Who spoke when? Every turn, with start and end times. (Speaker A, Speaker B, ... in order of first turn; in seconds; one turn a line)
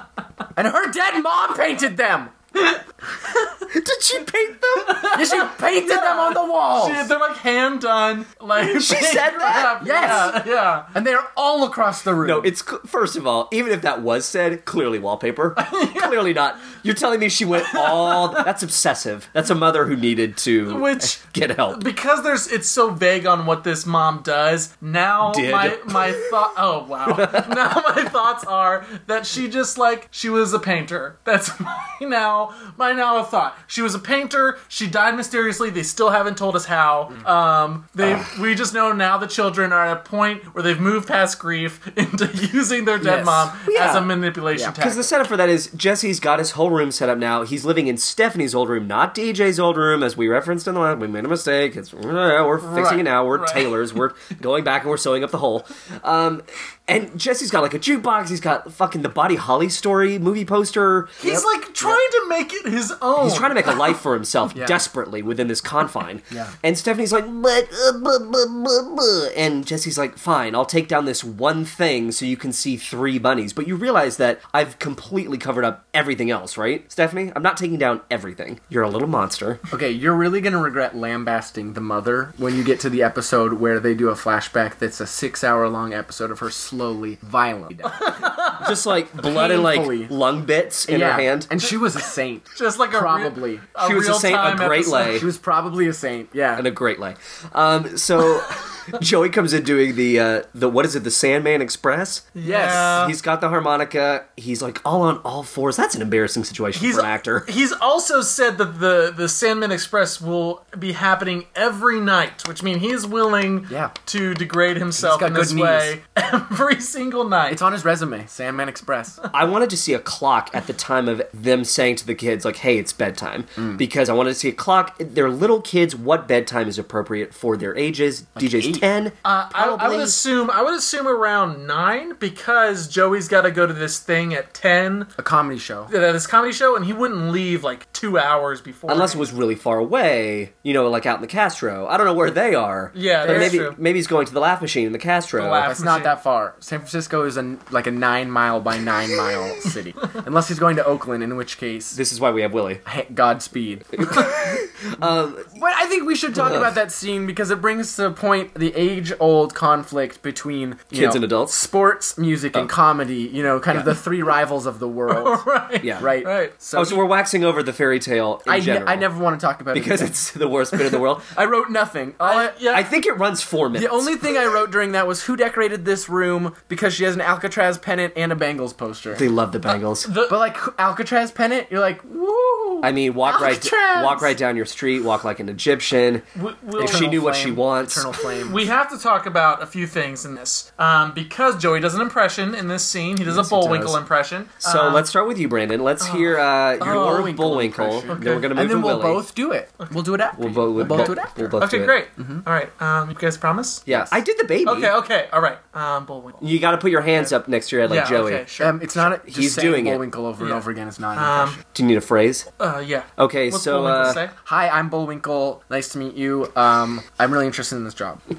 Speaker A: 0.6-2.4
Speaker B: 3.7-5.1
Speaker C: 4.8-10.9
Speaker A: 5.1-7.1
Speaker B: 8.6-10.3
Speaker A: 9.8-12.5
Speaker B: 12.2-21.8
Speaker C: 15.6-16.3
Speaker C: 17.6-18.5
Speaker C: 20.7-45.1
Speaker B: 25.2-26.4
Speaker B: 27.1-27.5
Speaker B: 38.0-38.3
Speaker A: 43.0-44.0
Speaker B: 43.6-44.1
Speaker B: 44.8-61.4
Speaker C: 52.6-53.7
Speaker C: 61.2-63.9
Speaker A: 61.3-62.0
Speaker B: 63.2-79.6
Speaker A: 64.5-64.8
Speaker A: 79.7-88.2
Speaker C: 87.9-88.8
Speaker B: 88.6-91.5
Speaker A: 89.2-90.1
Speaker A: 90.9-93.7
Speaker C: 92.5-95.2
Speaker B: 93.8-95.3
Speaker A: 95.0-96.7
Speaker B: 96.6-107.5
Speaker C: 102.3-103.1
Speaker A: 102.4-103.0
Speaker C: 106.8-117.6
Speaker A: 113.7-113.9
Speaker A: 115.0-116.0
Speaker A: 117.5-119.2
Speaker B: 119.3-130.2
Speaker A: 123.6-123.8
Speaker A: 128.4-128.8
Speaker C: 129.2-135.1
Speaker A: 135.2-135.9
Speaker C: 135.9-139.2
Speaker B: 138.9-145.7
Speaker C: 142.9-143.8
Speaker A: 143.2-143.6
Speaker C: 145.4-146.2
Speaker A: 145.7-152.0
Speaker B: 151.9-152.8
Speaker A: 152.8-154.4
Speaker B: 154.0-155.5
Speaker A: 155.5-165.4
Speaker B: 156.3-156.7
Speaker B: 160.9-161.6
Speaker B: 163.7-164.0
Speaker C: 165.1-166.5
Speaker B: 165.8-166.1
Speaker A: 166.0-167.0
Speaker B: 166.7-169.1
Speaker A: 168.5-170.1
Speaker B: 169.7-171.3
Speaker A: 170.7-172.6
Speaker C: 172.2-172.9
Speaker B: 172.6-174.2
Speaker A: 173.7-179.2
Speaker B: 179.1-180.1
Speaker C: 179.7-180.4
Speaker A: 180.3-184.3
Speaker B: 182.8-186.2
Speaker C: 186.3-187.5
Speaker B: 186.8-188.1
Speaker A: 186.8-188.7
Speaker C: 188.4-195.0
Speaker A: 193.3-193.9
Speaker B: 194.6-199.2
Speaker C: 196.0-197.3
Speaker A: 196.8-201.6
Speaker C: 198.1-198.5
Speaker B: 200.4-202.0
Speaker C: 200.8-203.9
Speaker A: 202.2-202.4
Speaker B: 203.9-204.9
Speaker A: 203.9-204.1
Speaker C: 204.6-206.5
Speaker B: 206.4-210.0
Speaker C: 207.8-208.8
Speaker A: 208.6-211.6
Speaker C: 210.4-210.6
Speaker C: 211.2-211.6
Speaker B: 211.7-212.5
Speaker C: 212.6-214.3
Speaker B: 213.2-214.2
Speaker A: 214.3-218.2